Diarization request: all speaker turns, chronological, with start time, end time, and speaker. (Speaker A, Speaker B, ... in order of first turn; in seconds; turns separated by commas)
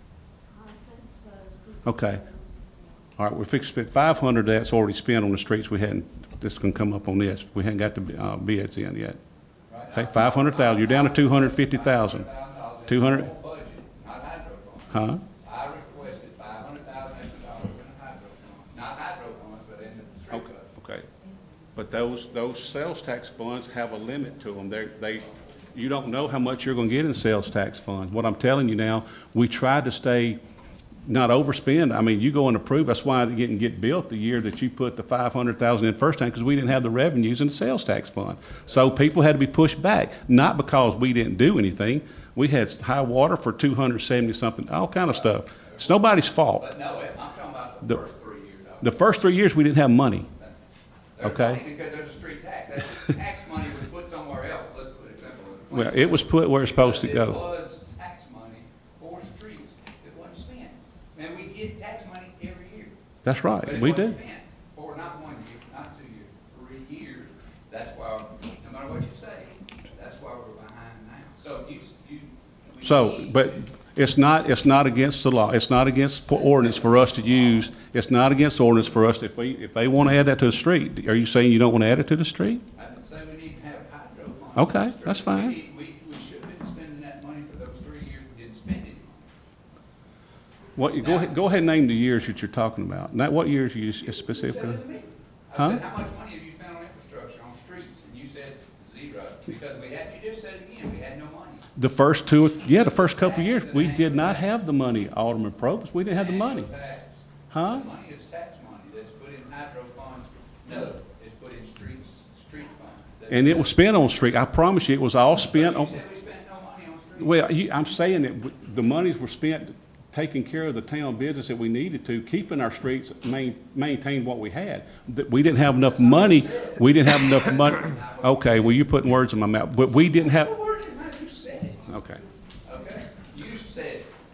Speaker A: 0.5-3.1, Speaker B: 1.8-2.2, Speaker B: 3.2-9.2, Speaker C: 9.7-20.7, Speaker B: 9.9-12.3, Speaker B: 12.9-13.3, Speaker B: 14.9-15.2, Speaker B: 20.3-21.1, Speaker B: 21.7-30.4, Speaker B: 31.1-46.6, Speaker C: 45.1-49.0, Speaker B: 48.8-50.3, Speaker C: 51.2-63.0, Speaker B: 51.2-51.6, Speaker B: 55.7-57.4, Speaker B: 63.2-64.2, Speaker C: 63.6-73.6, Speaker B: 72.8-82.6, Speaker C: 76.3-77.6, Speaker C: 82.8-89.3, Speaker B: 84.5-85.5, Speaker B: 90.8-94.8, Speaker C: 91.0-91.3, Speaker C: 94.0-101.7, Speaker B: 95.5-95.8, Speaker B: 101.8-106.7, Speaker C: 102.7-104.5, Speaker C: 106.0-113.8, Speaker B: 107.5-107.9, Speaker B: 113.3-116.0, Speaker C: 115.4-117.5, Speaker B: 117.2-130.5, Speaker C: 125.7-128.9, Speaker C: 130.0-131.9, Speaker B: 131.9-132.2, Speaker C: 132.6-134.1